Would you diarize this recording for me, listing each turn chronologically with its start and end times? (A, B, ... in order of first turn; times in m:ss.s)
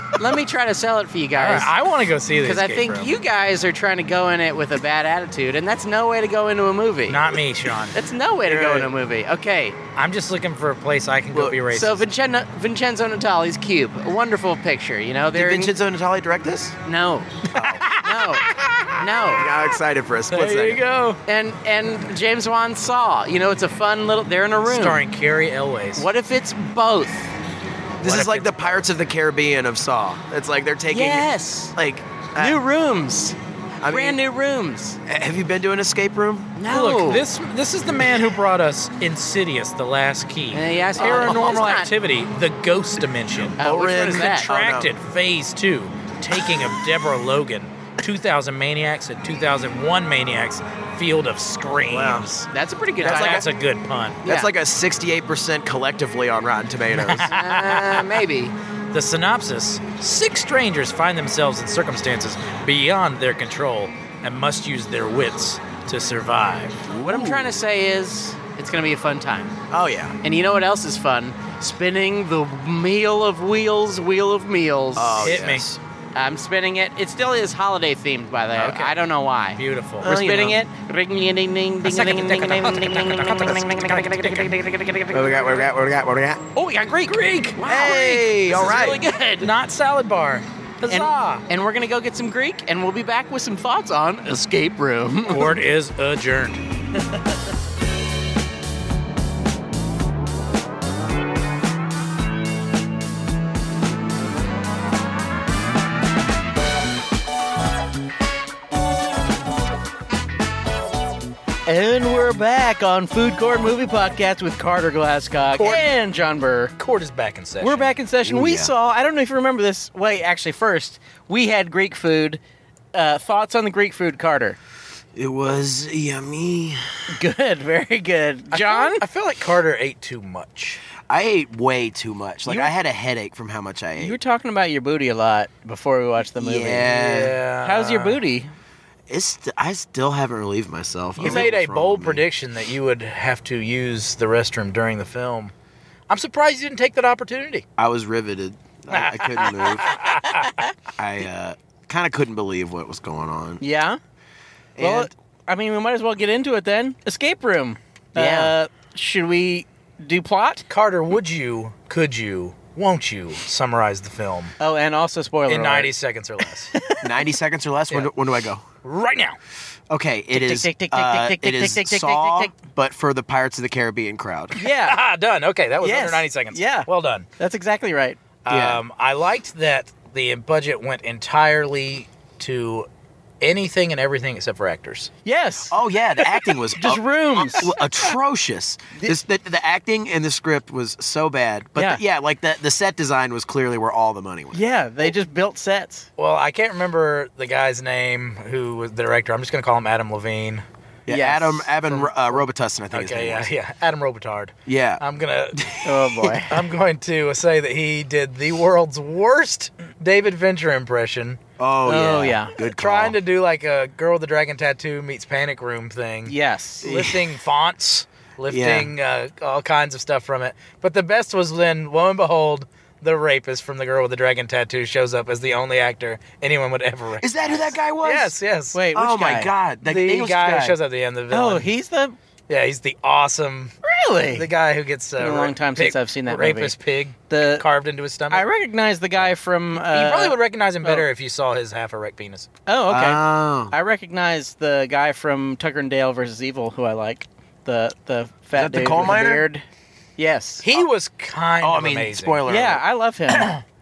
0:00.2-0:01.7 A
0:01.4-0:03.2 B
0:02.4-0:07.3 A
0:07.1-0:08.0 B
0:07.9-0:09.8 A
0:08.4-0:08.9 C
0:10.0-0:12.1 B
0:11.7-0:15.8 A
0:15.3-0:16.8 C
0:16.8-0:17.4 A
0:17.5-0:19.0 B
0:17.5-0:17.9 C
0:18.0-0:19.4 A
0:19.3-0:20.8 C
0:20.3-0:21.2 B
0:21.3-0:25.0 A
0:24.6-0:26.1 B
0:26.0-0:27.3 A
0:28.0-0:28.9 B
0:28.0-0:32.6 C
0:30.9-0:31.8 A
0:32.4-0:35.0 A
0:33.8-0:34.2 C
0:35.1-0:36.6 C
0:36.6-0:37.2 A
0:36.7-0:52.4 B
0:40.5-0:41.9 A
0:43.6-0:44.5 A
0:43.6-0:44.9 C
0:51.9-0:52.4 C
0:52.4-0:53.5 A
0:53.0-0:54.2 B
0:53.0-0:53.5 C
0:54.2-0:57.3 C
0:54.2-0:54.5 A
0:56.9-0:58.2 B
0:57.2-0:58.5 A
0:58.9-1:06.9 B
1:06.9-1:07.6 C
1:07.0-1:09.6 A
1:09.7-1:10.2 C
1:10.2-1:15.5 A
1:15.0-1:15.8 C
1:15.2-1:15.7 B
1:16.2-1:25.7 A
1:18.6-1:19.0 B
1:19.6-1:20.1 B
1:20.0-1:20.6 C
1:21.8-1:24.6 B
1:25.1-1:26.4 C
1:26.6-1:29.5 A
1:27.0-1:27.6 B
1:27.6-1:29.0 C
1:29.4-1:31.4 B
1:30.9-1:35.6 A
1:35.3-1:36.6 B
1:51.7-1:56.8 A
1:55.6-1:55.9 B
1:56.8-1:57.9 B
1:57.6-2:02.4 A
1:58.2-1:58.7 C
2:02.9-2:04.6 A
2:05.2-2:06.8 C
2:07.1-2:09.0 A
2:08.5-2:10.8 B
2:11.1-2:14.2 C
2:14.0-2:17.0 A
2:16.4-2:17.4 C
2:16.8-2:18.2 B
2:17.6-2:18.5 A
2:19.1-2:22.2 C
2:21.2-2:21.5 A
2:21.2-2:25.5 B
2:26.1-2:27.6 B
2:27.8-2:29.9 C
2:28.9-2:30.5 B
2:31.0-2:33.6 C
2:33.6-2:34.0 A
2:34.8-2:35.1 C
2:34.8-2:40.7 A
2:38.2-2:38.5 C
2:40.7-2:44.5 B
2:44.6-2:45.9 A
2:45.5-2:46.7 B
2:46.7-2:47.1 A
2:47.0-2:48.6 C
2:48.8-2:49.4 B
2:49.9-2:54.6 C
2:50.3-2:52.5 A
2:54.6-2:55.0 A
2:54.6-2:57.3 B
2:55.8-2:58.2 A
2:58.4-3:02.9 B
2:58.5-2:58.8 C
3:03.4-3:05.1 B
3:05.2-3:07.8 A
3:05.7-3:14.6 C
3:11.8-3:12.0 A
3:14.5-3:16.1 A
3:16.2-3:20.6 B
3:21.1-3:22.1 A
3:21.1-3:23.5 C
3:22.9-3:25.8 B
3:24.7-3:25.0 C
3:25.5-3:26.4 C
3:25.8-3:26.6 A
3:26.5-3:31.4 B
3:31.6-3:33.2 C
3:31.9-3:32.5 A
3:32.6-3:48.8 B
3:36.3-3:36.9 A
3:36.8-3:37.2 C
3:38.5-3:38.9 C
3:47.2-3:48.3 C
3:48.7-3:49.5 A
3:48.9-3:50.8 C
3:49.8-3:51.7 B
3:51.3-3:52.2 A
3:52.5-3:53.7 B
3:53.8-3:54.5 A
3:54.3-3:58.5 B
3:55.2-3:56.8 A
3:57.3-3:57.6 A
3:58.3-4:01.1 A
3:59.7-4:02.5 B
4:02.7-4:09.6 A
4:02.9-4:03.8 C
4:08.6-4:09.5 C
4:10.2-4:10.7 A
4:10.6-4:12.5 B
4:11.6-4:12.8 C
4:12.5-4:13.6 A
4:13.3-4:13.6 B